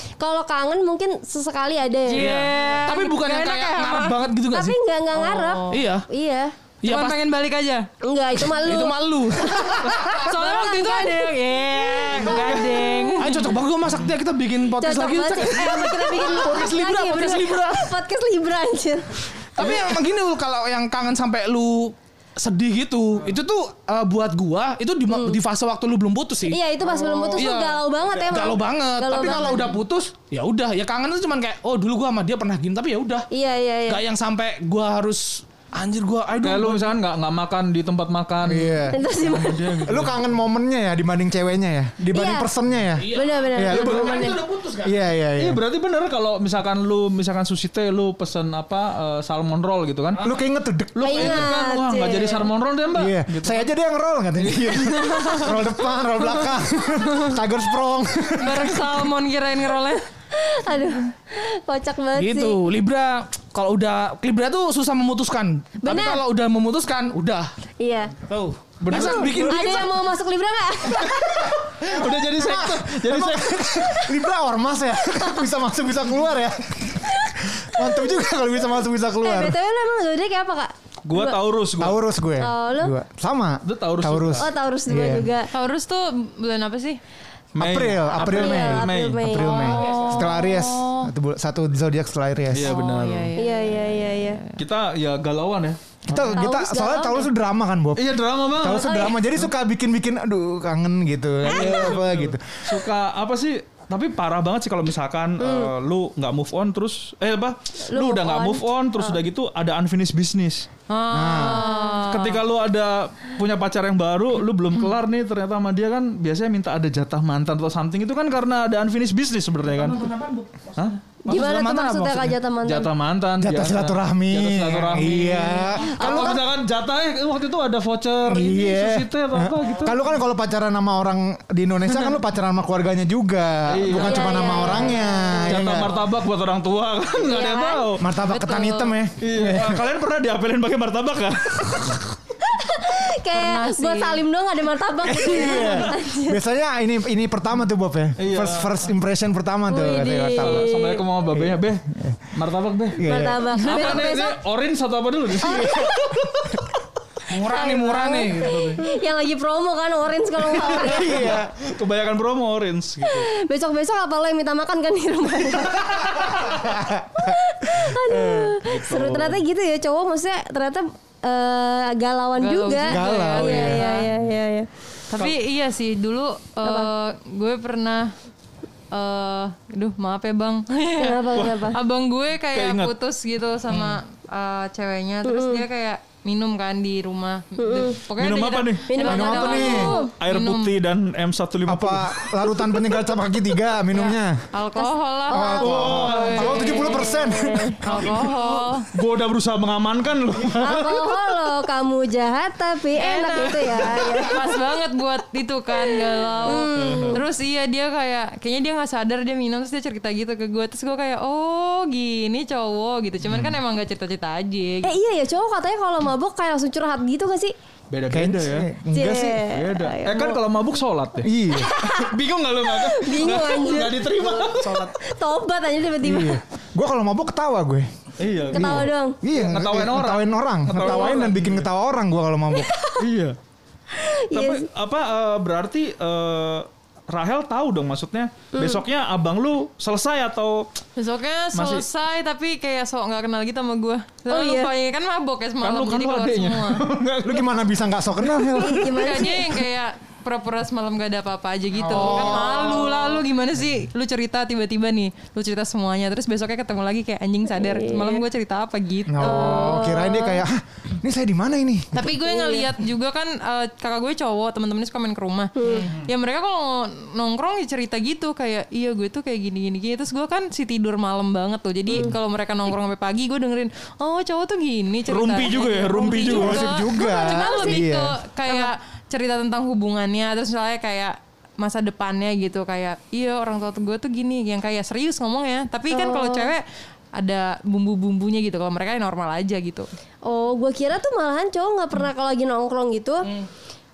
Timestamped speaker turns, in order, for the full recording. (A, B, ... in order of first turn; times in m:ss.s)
0:00.2-0:02.4 A
0:02.1-0:04.2 B
0:02.2-0:04.8 C
0:04.5-0:06.6 A
0:05.1-0:05.8 B
0:05.7-0:06.1 C
0:06.8-0:07.2 C
0:06.8-0:07.9 B
0:08.0-0:11.4 A
0:08.4-0:10.3 C
0:10.2-0:13.5 B
0:12.0-0:13.3 A
0:13.2-0:17.9 C
0:14.8-0:19.9 A
0:19.6-0:33.3 C
0:25.1-0:25.4 A
0:26.5-0:29.8 A
0:33.3-0:34.0 A
0:33.9-0:37.0 C
0:36.4-0:40.2 D
0:38.4-0:39.0 E
0:38.9-0:39.8 A
0:39.8-0:44.2 E
0:42.1-0:42.5 A
0:43.0-0:45.0 C
0:43.1-0:44.4 A
0:44.8-0:45.6 E
0:45.4-0:50.2 D
0:50.2-0:51.5 E
0:51.0-0:53.7 D
0:51.0-0:52.5 A
0:52.9-0:59.0 E
0:54.4-0:55.5 D
0:58.4-1:00.0 B
1:00.3-1:02.6 A
1:02.2-1:07.5 C
1:05.8-1:06.2 A
1:07.8-1:08.2 A
1:08.2-1:10.0 C
1:08.8-1:09.8 D
1:08.9-1:11.6 A
1:11.8-1:14.1 D
1:12.4-1:19.6 E
1:19.2-1:21.4 A
1:21.0-1:22.0 D
1:21.8-1:25.3 E
1:22.4-1:22.9 A
1:23.6-1:24.5 D
1:24.4-1:25.5 A
1:25.5-1:27.0 B
1:27.6-1:29.6 D
1:27.6-1:32.8 E
1:28.2-1:30.3 A
1:29.7-1:31.1 B
1:32.5-1:33.3 D
1:32.6-1:34.6 B
1:33.4-1:34.4 A
1:34.6-1:36.4 D
1:36.1-1:42.6 E
1:36.3-1:37.3 A
1:38.0-1:39.5 D
1:38.7-1:39.2 A
1:41.4-1:50.7 D
1:45.4-1:45.7 A
1:47.9-1:49.2 A
1:50.9-1:52.4 B
1:51.1-1:51.7 E
1:51.4-1:52.0 A
1:52.1-2:00.0 D
1:59.7-2:02.4 C
2:01.3-2:02.9 A
2:02.6-2:10.0 D
2:03.4-2:06.4 E
2:05.8-2:06.4 A
2:08.3-2:15.9 E
2:13.7-2:18.1 D
2:13.9-2:15.5 A
2:17.2-2:17.9 A
2:18.0-2:19.8 E
2:18.3-2:19.0 B
2:19.2-2:22.1 D
2:22.5-2:26.4 A
2:23.3-2:24.2 B
2:25.0-2:25.9 D
2:25.2-2:30.7 E
2:28.2-2:28.8 D
2:29.7-2:31.0 A
2:30.3-2:36.1 D
2:31.3-2:32.2 E
2:33.0-2:34.0 E
2:33.0-2:34.4 A
2:35.4-2:36.2 A
2:35.5-2:36.0 E
2:37.3-2:38.9 C
2:37.4-2:41.3 A
2:40.6-2:43.3 D
2:40.8-2:41.5 E
2:43.0-2:46.5 A
2:46.5-2:48.6 E
2:47.2-2:54.7 A
2:48.6-2:49.4 D
2:52.4-2:54.1 B
2:52.9-2:53.9 E
2:55.1-2:58.1 B
2:56.6-2:56.9 A
2:58.9-3:10.7 B
3:01.0-3:01.8 A
3:01.3-3:01.8 D
3:02.5-3:02.9 D
3:05.3-3:05.6 A
3:07.6-3:08.0 A
3:08.2-3:12.3 D
3:08.9-3:10.1 A
3:09.0-3:10.0 E
3:11.7-3:14.4 E
3:13.9-3:17.0 B
3:14.8-3:17.8 A
3:15.3-3:17.9 E
3:15.6-3:16.9 D
3:17.8-3:18.9 B
3:17.8-3:21.3 D
3:20.6-3:24.6 A
3:22.9-3:35.0 B
3:25.8-3:27.2 A
3:26.7-3:27.2 D
3:34.8-3:37.6 A
3:37.9-3:38.7 D
3:38.1-3:39.5 E
3:38.9-3:40.4 A
3:39.4-3:44.9 D
3:41.2-3:41.8 E
3:41.5-3:42.1 A
3:42.6-3:46.4 A
3:44.6-3:44.9 C
3:46.0-3:47.9 E
3:48.2-3:51.7 D
3:48.5-3:49.2 A
3:48.5-3:52.7 E
3:50.8-3:51.2 A
3:52.5-3:53.0 A
3:53.0-3:53.4 D
3:53.9-3:54.7 A
3:54.3-4:00.7 D
3:58.6-3:58.8 A
4:01.0-4:06.9 B
4:01.5-4:01.8 D
4:04.3-4:04.7 A
4:05.6-4:07.6 D
4:07.2-4:08.9 E
4:08.2-4:08.6 D
4:08.6-4:09.5 A
4:08.9-4:19.9 B
4:11.8-4:13.1 E
4:17.5-4:18.2 A
4:19.1-4:22.2 E
4:19.2-4:20.4 A
4:21.9-4:49.9 B
4:22.2-4:22.7 A
4:25.6-4:25.9 A
4:35.1-4:36.8 D
4:36.2-4:38.2 E
4:37.0-4:37.8 A
4:38.5-4:38.7 A
4:45.9-4:46.5 A
4:50.2-4:53.3 A